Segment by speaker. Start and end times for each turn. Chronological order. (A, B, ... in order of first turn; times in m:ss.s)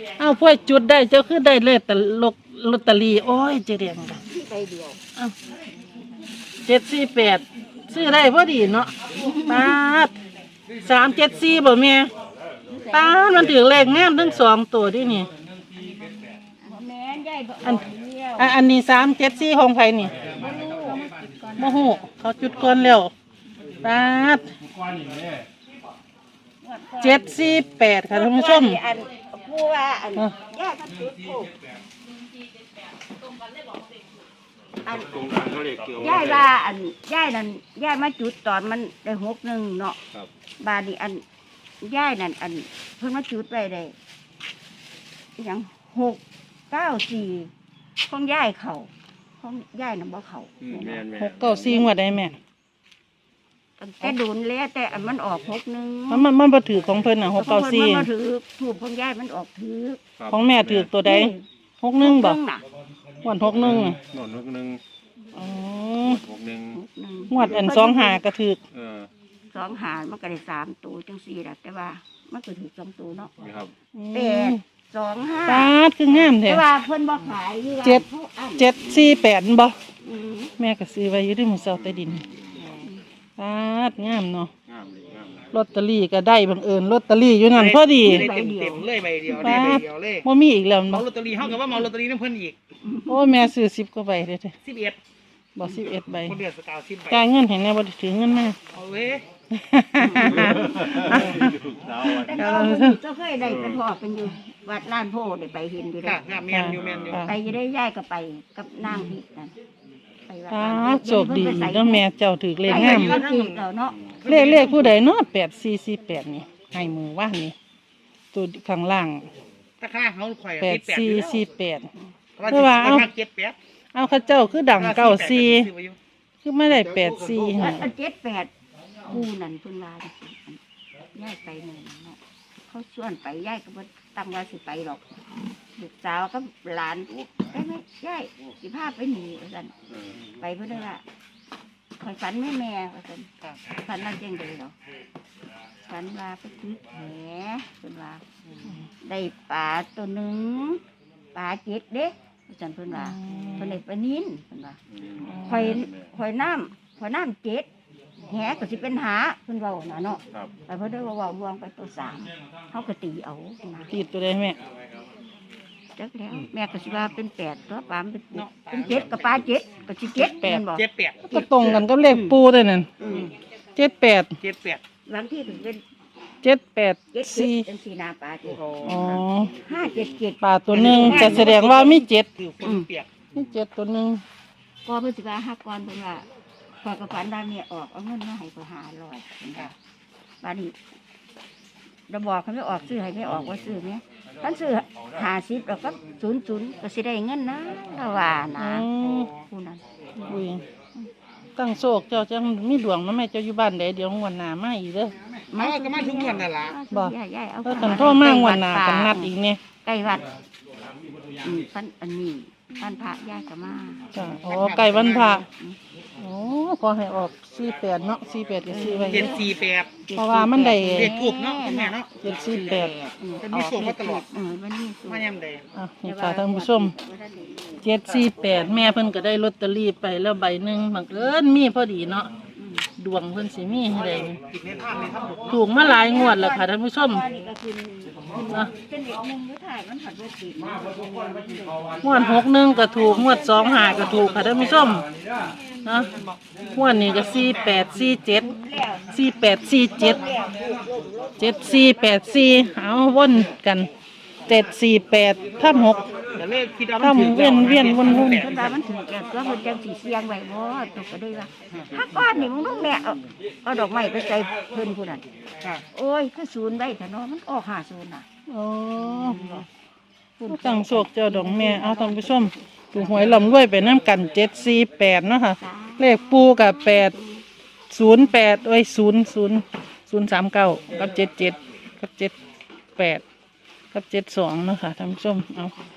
0:00.2-0:04.2 A
0:04.3-0:05.0 B
0:06.6-0:10.1 A
0:09.1-0:09.7 B
0:10.8-0:12.1 A
0:12.7-0:13.6 B
0:12.9-0:15.3 A
0:15.8-0:18.7 B
0:18.4-0:20.2 A
0:20.2-0:22.0 B
0:21.6-0:23.1 A
0:23.8-0:24.5 A
0:26.6-0:27.4 B
0:27.0-0:28.8 A
0:28.1-0:31.6 B
0:34.8-0:35.3 B
0:35.2-0:36.4 C
0:36.0-0:40.0 B
0:40.6-0:41.2 B
0:41.8-0:44.0 B
0:45.4-0:47.5 B
0:48.0-0:51.1 B
0:51.1-0:51.5 C
0:51.1-0:52.4 A
0:53.8-0:56.3 B
0:56.1-0:58.1 A
0:57.4-1:00.0 B
1:00.2-1:00.8 C
1:00.3-1:02.4 A
1:01.0-1:01.4 B
1:02.0-1:02.6 B
1:03.2-1:04.0 A
1:03.6-1:04.8 C
1:05.3-1:06.2 A
1:06.0-1:06.6 C
1:06.7-1:08.2 B
1:07.3-1:08.6 A
1:08.8-1:09.1 C
1:09.5-1:13.3 B
1:13.4-1:13.7 C
1:13.9-1:14.6 A
1:14.1-1:18.8 B
1:15.5-1:16.6 A
1:18.6-1:19.8 A
1:20.0-1:20.5 B
1:20.6-1:22.2 A
1:22.7-1:23.0 B
1:23.4-1:24.5 A
1:24.7-1:25.3 D
1:25.5-1:28.3 A
1:27.5-1:30.3 D
1:28.0-1:28.9 B
1:29.4-1:29.7 B
1:29.4-1:31.0 A
1:30.9-1:32.6 D
1:32.8-1:33.4 B
1:33.1-1:34.5 A
1:34.6-1:35.0 D
1:35.6-1:36.4 A
1:35.7-1:37.2 D
1:37.1-1:38.6 A
1:38.7-1:39.2 D
1:39.5-1:43.0 A
1:40.0-1:41.2 B
1:42.0-1:46.2 B
1:46.0-1:47.3 D
1:46.5-1:47.4 A
1:47.2-1:49.5 B
1:50.3-1:52.0 B
1:50.5-1:53.2 A
1:52.6-1:54.0 B
1:52.7-1:55.0 D
1:54.2-1:57.6 A
1:58.3-1:59.3 A
1:59.8-2:01.4 D
2:00.6-2:01.9 A
2:02.4-2:03.6 D
2:02.5-2:03.1 A
2:03.9-2:05.7 A
2:04.7-2:06.0 D
2:06.4-2:07.9 A
2:07.0-2:07.4 D
2:07.5-2:08.5 B
2:09.1-2:10.6 B
2:11.1-2:15.0 B
2:15.8-2:19.7 B
2:20.4-2:21.0 B
2:22.0-2:24.7 B
2:25.9-2:28.2 B
2:29.0-2:30.8 B
2:31.3-2:34.8 B
2:32.9-2:33.8 A
2:35.2-2:35.8 A
2:35.4-2:37.7 B
2:38.3-2:43.9 B
2:43.9-2:44.6 A
2:46.0-2:50.8 B
2:48.3-2:49.1 D
2:50.2-2:50.6 A
2:50.6-2:51.8 D
2:51.2-2:52.9 A
2:52.1-2:52.4 B
2:53.0-2:53.3 B
2:53.0-2:53.3 D
2:53.8-2:54.4 A
2:54.4-2:54.8 D
2:55.1-2:55.8 B
2:56.4-2:57.7 A
2:57.1-2:59.0 B
2:58.6-2:59.2 D
2:58.8-2:59.5 A
2:59.5-3:01.6 B
3:00.4-3:02.3 A
3:00.7-3:03.1 D
3:02.6-3:02.9 B
3:03.3-3:04.2 A
3:04.8-3:06.3 B
3:06.8-3:09.7 B
3:10.4-3:10.8 B
3:12.1-3:19.8 B
3:18.6-3:19.3 A
3:20.2-3:20.6 A
3:21.6-3:25.1 A
3:25.5-3:30.3 B
3:25.5-3:26.8 D
3:27.6-3:29.6 A
3:28.2-3:28.5 D
3:31.4-3:35.8 B
3:34.1-3:35.4 A
3:34.5-3:35.4 D
3:36.2-3:39.4 A
3:38.7-3:39.5 B
3:39.1-3:40.0 D
3:40.0-3:45.3 B
3:40.1-3:41.1 A
3:40.9-3:42.1 D
3:42.2-3:42.9 A
3:43.4-3:44.3 D
3:45.0-3:45.7 D
3:45.8-3:46.9 A
3:46.0-3:49.0 B
3:47.8-3:52.3 A
3:52.6-3:52.9 B
3:53.0-3:54.4 A
3:53.9-3:55.6 D
3:55.0-4:02.0 B
3:55.5-3:57.2 A
4:02.0-4:05.1 A
4:02.9-4:05.0 B
4:05.8-4:06.1 A
4:06.7-4:08.5 A
4:08.3-4:11.8 B
4:09.1-4:10.2 A
4:11.4-4:13.9 A
4:14.5-4:16.1 A
4:16.4-4:18.7 D
4:17.0-4:18.4 A
4:17.7-4:25.2 B
4:25.9-4:28.3 B
4:28.5-4:29.4 A
4:29.0-4:29.7 B
4:30.4-4:33.0 B
4:30.5-4:37.2 A
4:35.6-4:37.4 B
4:37.9-4:42.3 A
4:43.0-4:43.2 A
4:43.9-4:45.7 A